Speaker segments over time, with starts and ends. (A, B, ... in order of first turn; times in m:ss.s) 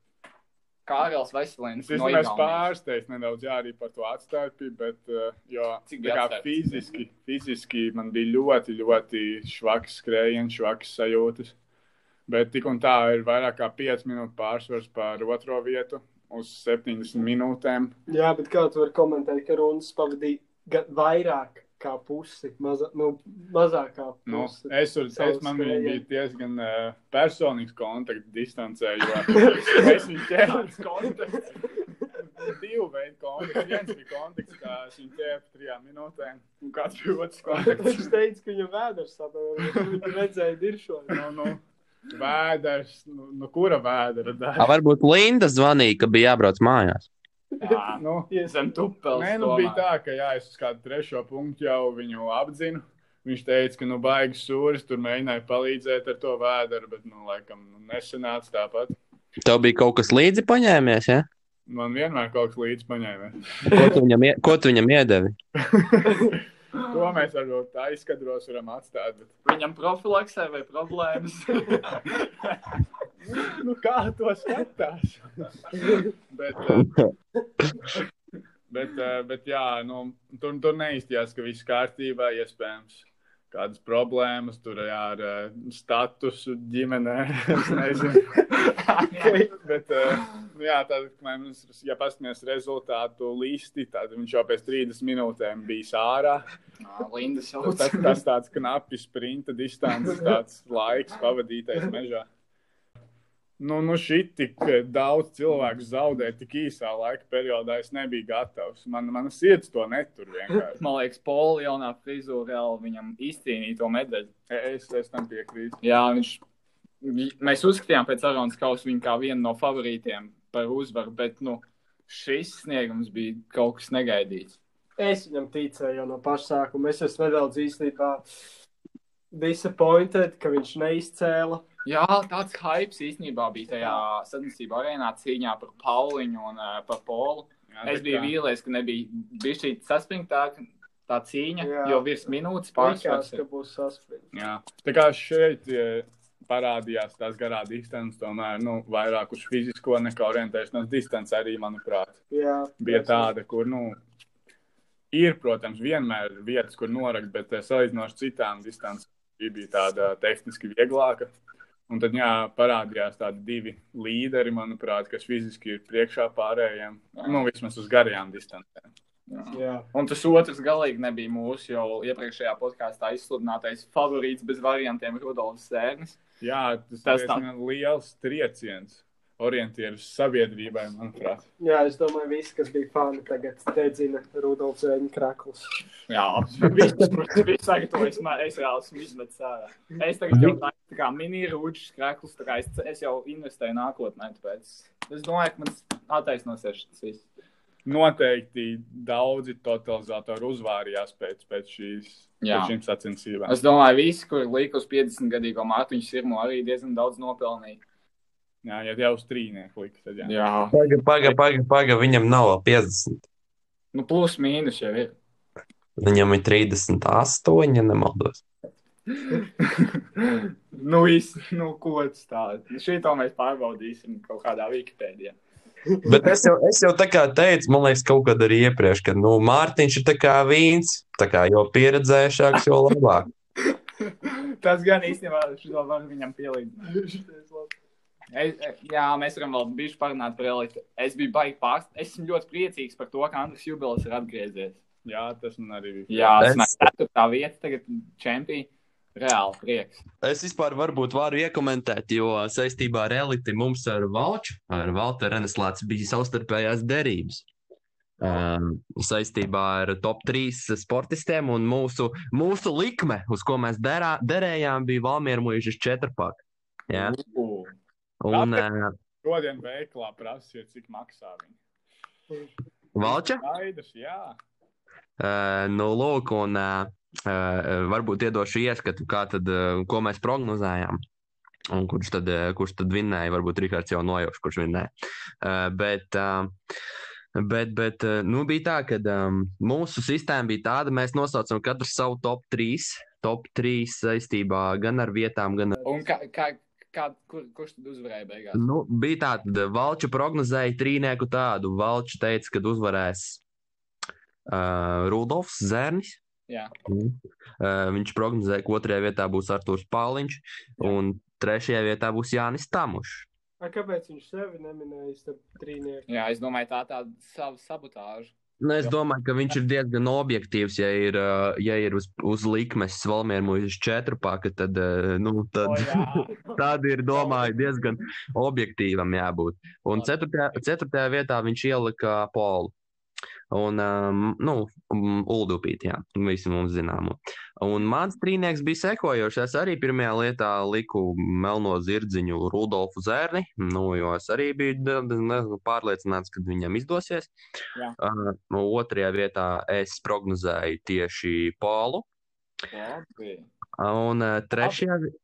0:00.9-0:02.7 A
0:01.9-0:11.5 B
0:05.9-0:06.7 A
0:12.3-0:17.9 B
0:18.1-0:26.0 C
0:24.3-0:31.4 B
0:29.3-0:29.9 C
0:29.8-0:31.4 A
0:32.2-0:38.1 B
0:37.5-0:41.2 C
0:41.1-0:44.7 B
0:44.6-0:47.1 D
0:47.6-0:49.8 A
0:48.0-0:48.3 B
0:49.1-0:59.0 B
0:59.4-1:01.3 D
1:01.7-1:03.8 B
1:03.7-1:05.4 D
1:05.6-1:06.4 B
1:06.9-1:09.3 B
1:09.4-1:12.0 A
1:13.3-1:16.9 B
1:16.7-1:17.7 D
1:18.7-1:28.4 B
1:28.6-1:29.4 A
1:29.1-1:29.6 C
1:29.5-1:36.5 B
1:36.8-1:38.2 A
1:37.6-1:42.3 B
1:43.6-1:50.8 B
1:50.8-1:54.3 A
1:54.5-1:55.8 B
1:55.8-1:56.4 A
1:57.0-2:04.6 A
2:05.0-2:08.2 C
2:09.3-2:11.6 C
2:11.8-2:23.4 A
2:17.7-2:18.3 B
2:21.6-2:22.1 C
2:22.8-2:24.3 C
2:24.3-2:32.2 B
2:32.3-2:33.3 C
2:32.8-2:34.0 B
2:35.1-2:41.3 B
2:41.9-2:48.8 B
2:47.2-2:47.5 A
2:49.3-2:56.2 A
2:49.5-2:49.9 C
2:56.4-3:01.5 B
2:57.0-2:57.5 A
3:01.6-3:05.8 C
3:06.1-3:17.2 A
3:10.3-3:10.6 D
3:17.8-3:23.5 B
3:22.4-3:22.7 A
3:23.5-3:27.8 A
3:28.6-3:30.3 B
3:30.2-3:31.4 A
3:30.7-3:33.2 D
3:33.9-3:35.2 A
3:36.0-3:38.4 D
3:39.1-3:45.4 A
3:45.9-3:46.3 C
3:46.0-3:53.3 D
3:54.2-3:57.0 A
3:56.9-3:57.7 C
3:58.3-4:04.8 A
4:05.0-4:06.4 B
4:06.1-4:10.0 A
4:06.4-4:06.9 D
4:10.2-4:17.5 D
4:18.2-4:27.2 D
4:26.9-4:27.7 A
4:28.2-4:28.9 D
4:28.3-4:28.7 B
4:29.2-4:31.6 B
4:33.0-4:33.5 D
4:33.0-4:34.4 B
4:35.2-4:41.0 D
4:41.7-4:44.9 D
4:45.4-4:46.5 D
4:47.4-4:55.8 D
4:55.8-4:56.1 C
4:55.8-4:58.6 A
4:58.6-5:03.4 D
5:04.5-5:06.2 D
5:06.9-5:13.3 D
5:13.6-5:16.0 C
5:16.1-5:18.9 A
5:18.6-5:32.7 D
5:25.6-5:26.6 A
5:27.1-5:27.8 A
5:29.9-5:30.6 A
5:33.5-5:47.3 D
5:48.0-5:52.0 D
5:52.7-5:53.5 A
5:53.8-5:55.1 D